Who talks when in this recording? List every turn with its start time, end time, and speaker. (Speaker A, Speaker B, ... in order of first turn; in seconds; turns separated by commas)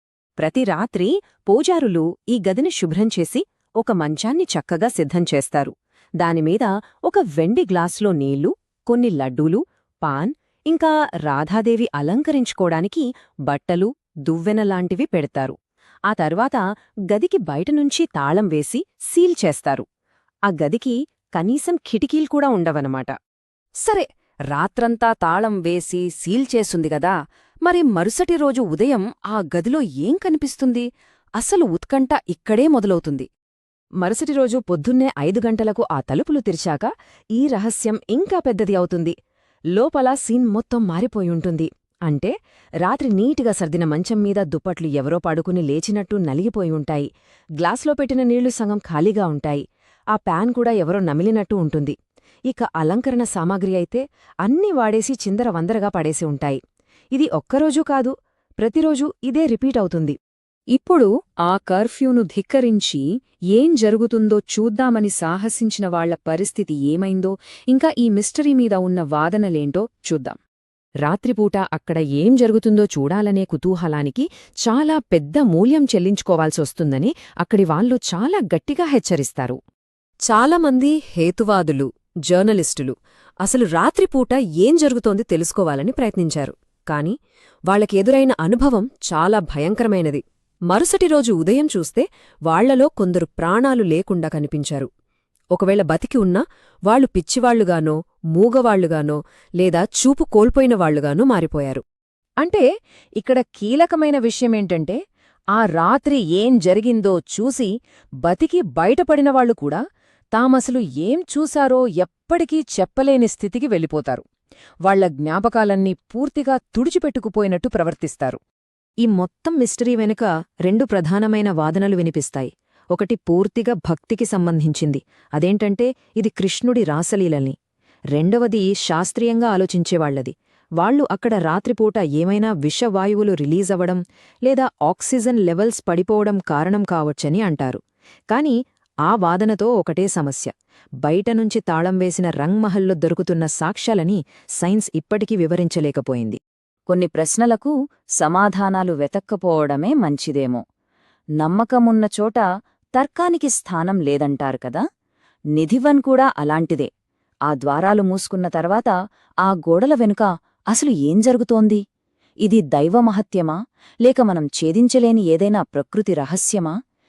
Speaker A: 0.4-15.6, Speaker A: 16.1-19.9, Speaker A: 20.5-23.1, Speaker A: 23.9-30.9, Speaker A: 31.4-33.3, Speaker A: 34.0-39.1, Speaker A: 39.7-47.1, Speaker A: 47.6-52.0, Speaker A: 52.5-56.6, Speaker A: 57.1-60.2, Speaker A: 60.7-70.4, Speaker A: 71.0-79.6, Speaker A: 80.3-87.2, Speaker A: 87.7-94.9, Speaker A: 95.5-101.8, Speaker A: 103.2-105.0, Speaker A: 105.5-107.7, Speaker A: 108.2-109.8, Speaker A: 110.3-114.2, Speaker A: 114.8-118.4, Speaker A: 119.0-127.6, Speaker A: 128.2-137.8, Speaker A: 138.3-140.5, Speaker A: 141.0-146.4, Speaker B: 146.9-150.6, Speaker A: 149.0-149.7, Speaker B: 151.4-152.4, Speaker B: 153.0-154.8, Speaker A: 153.0-154.2, Speaker B: 155.6-156.3, Speaker A: 155.6-156.9, Speaker A: 157.5-158.8, Speaker B: 157.5-158.9, Speaker B: 159.5-161.8, Speaker A: 159.5-160.2, Speaker A: 160.8-161.8, Speaker A: 162.4-163.5, Speaker B: 163.0-163.5, Speaker A: 164.1-166.7